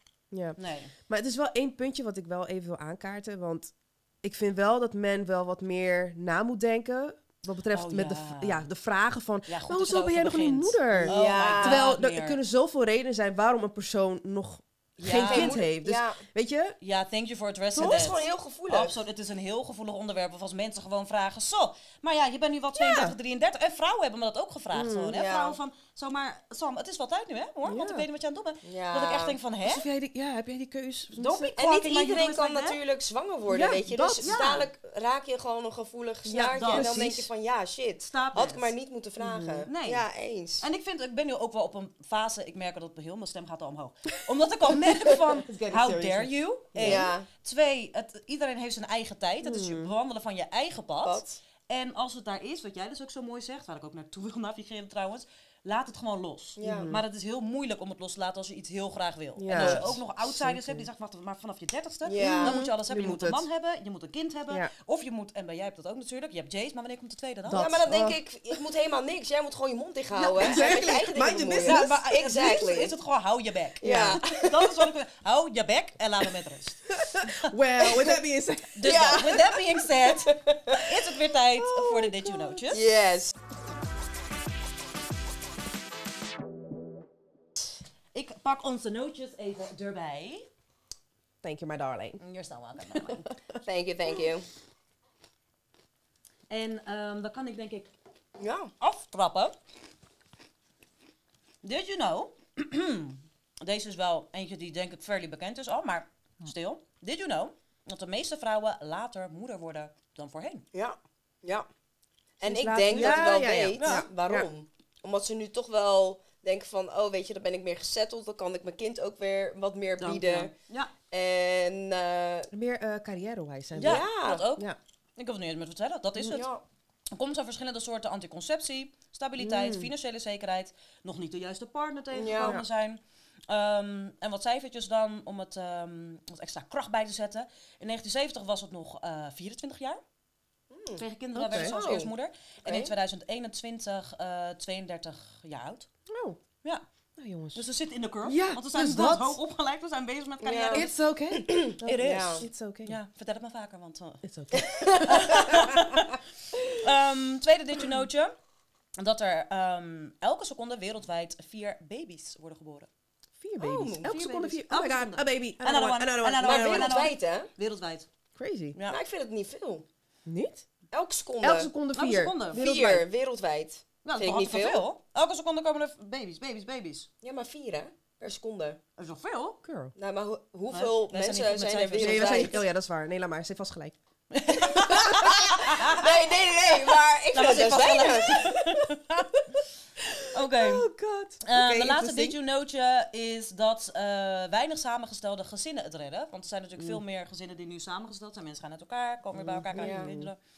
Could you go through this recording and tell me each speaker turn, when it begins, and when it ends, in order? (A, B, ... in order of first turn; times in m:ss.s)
0:00.3-0:16.8 A
0:00.6-0:00.9 B
0:07.7-0:08.7 B
0:09.5-0:12.4 B
0:11.0-0:11.9 C
0:15.0-0:15.6 B
0:15.1-0:16.2 C
0:16.8-0:29.8 B
0:17.7-0:19.0 C
0:22.8-0:23.2 A
0:24.7-0:25.2 A
0:25.1-0:25.6 C
0:27.6-0:28.0 A
0:28.6-0:29.4 C
0:29.6-0:31.5 A
0:31.1-0:32.8 B
0:31.4-0:40.6 C
0:33.5-0:34.4 A
0:34.2-0:34.7 B
0:36.2-0:37.3 A
0:36.5-0:36.9 B
0:38.1-0:38.7 B
0:39.2-0:39.7 A
0:39.7-0:40.0 B
0:40.6-1:07.9 B
0:44.8-0:47.1 A
0:46.8-0:47.3 C
0:49.4-0:49.9 A
0:51.0-0:51.4 C
0:56.6-0:56.9 C
0:56.6-0:57.0 A
0:59.4-1:00.9 A
0:59.5-0:59.9 C
1:02.0-1:02.6 C
1:02.2-1:03.4 A
1:07.4-1:08.2 A
1:07.5-1:12.9 C
1:10.2-1:11.9 A
1:11.6-1:18.1 B
1:13.8-1:14.6 C
1:16.9-1:19.1 A
1:18.7-1:22.9 B
1:18.8-1:20.8 C
1:21.6-1:22.6 A
1:22.7-1:23.3 C
1:28.1-1:30.5 B
1:31.4-1:32.2 A
1:32.2-1:33.3 B
1:32.9-1:33.6 A
1:33.6-1:34.5 C
1:36.5-1:37.9 B
1:38.4-1:38.7 C
1:38.8-1:39.5 B
1:41.6-1:50.6 B
1:50.7-1:51.7 C
1:52.4-2:00.5 C
1:52.4-1:54.5 A
1:52.9-1:54.1 B
2:00.0-2:00.9 B
2:01.1-2:02.5 C
2:02.5-2:04.8 A
2:03.8-2:04.6 B
2:03.8-2:04.4 C
2:05.2-2:06.5 B
2:06.2-2:06.4 A
2:06.3-2:06.6 C
2:07.1-2:20.0 B
2:09.4-2:09.9 A
2:12.1-2:12.6 C
2:12.4-2:12.6 A
2:20.7-2:22.1 C
2:21.0-2:25.9 B
2:21.3-2:21.8 A
2:22.6-2:22.9 C
2:26.1-2:26.4 A
2:27.2-2:27.6 A
2:27.5-2:31.0 B
2:28.2-2:29.4 A
2:30.4-2:32.4 C
2:30.7-2:33.0 A
2:31.8-2:34.2 B
2:34.2-2:35.9 A
2:34.5-2:35.5 C
2:35.0-2:38.3 B
2:39.0-2:42.9 B
2:43.4-2:47.0 A
2:43.6-2:44.1 C
2:44.0-2:48.1 B
2:46.4-2:47.5 C
2:48.3-2:48.8 A
2:48.7-2:49.0 B
2:48.9-2:49.8 C
2:50.2-2:50.6 A
2:50.9-2:51.7 C
2:51.4-2:53.1 A
2:51.9-2:52.6 B
2:52.5-2:54.9 C
2:54.0-2:57.1 B
2:57.2-2:58.8 C
2:59.0-2:59.6 B
2:59.6-2:59.9 A
3:00.0-3:02.6 C
3:00.7-3:02.6 B
3:02.0-3:04.0 A
3:04.3-3:06.0 B
3:04.6-3:08.6 C
3:04.7-3:05.0 A
3:07.3-3:09.5 B
3:10.0-3:12.4 A
3:10.3-3:10.9 B
3:11.4-3:20.4 B
3:16.8-3:17.0 A
3:19.3-3:20.3 A
3:19.7-3:20.1 C